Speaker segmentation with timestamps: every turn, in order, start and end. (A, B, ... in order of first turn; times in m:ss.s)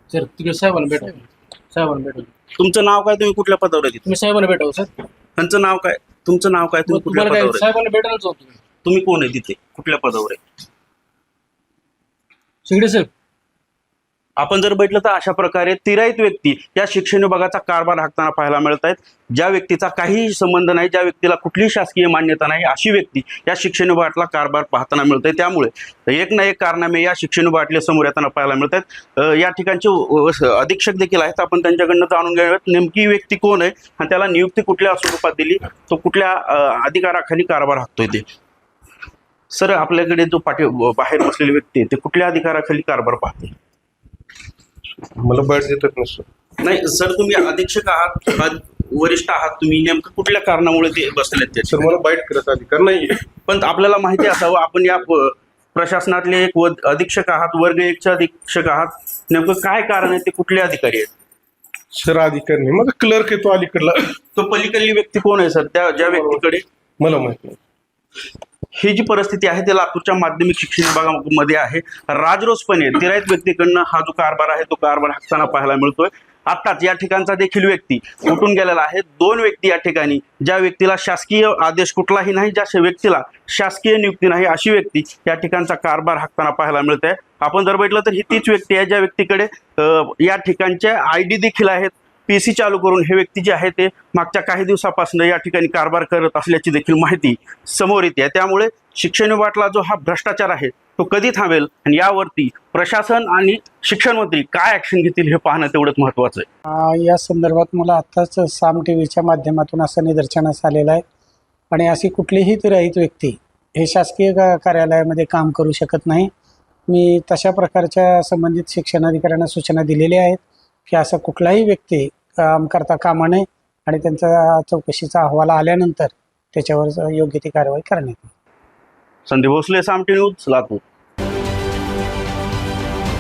0:00.1-0:02.3 A
0:02.6-0:04.0 B
0:04.0-0:04.9 A
0:05.4-0:07.7 B
0:06.9-0:08.6 A
0:08.8-0:10.4 B
0:12.7-0:13.1 A
0:14.4-0:38.2 B
0:39.5-0:43.5 B
0:45.2-0:46.2 C
0:46.6-0:51.8 B
0:51.7-0:53.2 C
0:53.5-1:01.1 B
1:01.9-1:04.1 C
1:04.4-1:06.6 B
1:06.1-1:06.4 C
1:07.0-1:07.6 C
1:08.8-1:46.5 B
1:46.8-1:51.0 D
1:51.7-1:56.3 D
1:56.9-2:08.3 D
2:09.3-2:10.8 B